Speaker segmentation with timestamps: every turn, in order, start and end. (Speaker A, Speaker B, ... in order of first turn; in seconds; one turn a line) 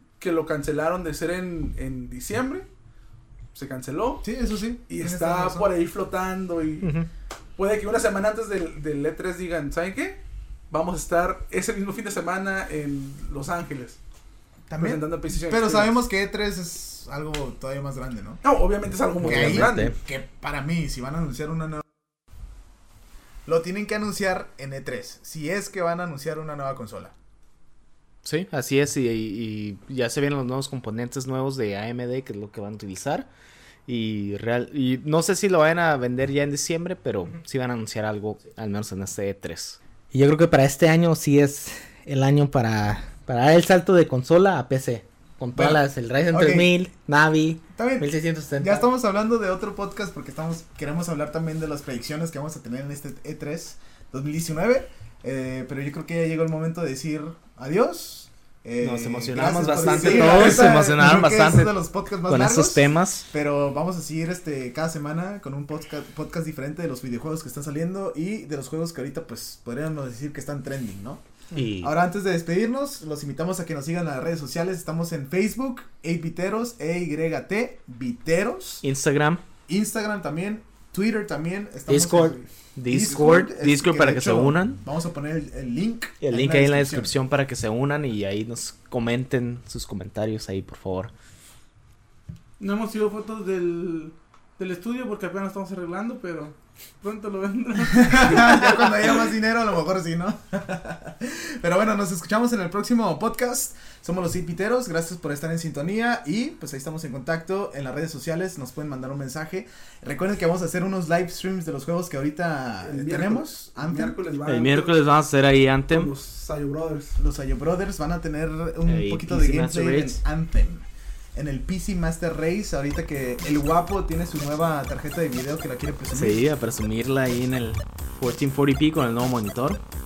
Speaker A: 0.2-2.7
Speaker A: 3.5-4.2
Speaker B: 4.2-5.7
Speaker A: 4.9-6.9
Speaker C: 6.8-7.1
Speaker A: 7.6-14.0
Speaker B: 14.7-18.4
Speaker A: 14.8-15.9
Speaker A: 18.4-19.9
Speaker D: 19.2-19.9
Speaker B: 19.2-21.9
Speaker B: 23.5-27.1
Speaker D: 28.2-33.3
Speaker D: 33.9-39.8
Speaker C: 40.1-48.9
Speaker B: 45.5-46.8
Speaker B: 47.7-71.2
Speaker D: 58.8-61.8
Speaker C: 59.9-60.5
Speaker D: 62.3-63.3
Speaker D: 71.5-71.9
Speaker B: 71.8-78.8
Speaker D: 78.8-79.4
Speaker B: 79.7-87.1
Speaker C: 81.9-82.4
Speaker D: 82.8-84.8
Speaker D: 86.2-91.1
Speaker E: 92.6-98.7
Speaker B: 97.9-114.2
Speaker A: 112.8-115.0
Speaker D: 114.5-116.1
Speaker A: 115.9-117.2
Speaker B: 117.2-126.4
Speaker D: 118.8-120.2
Speaker D: 126.1-129.8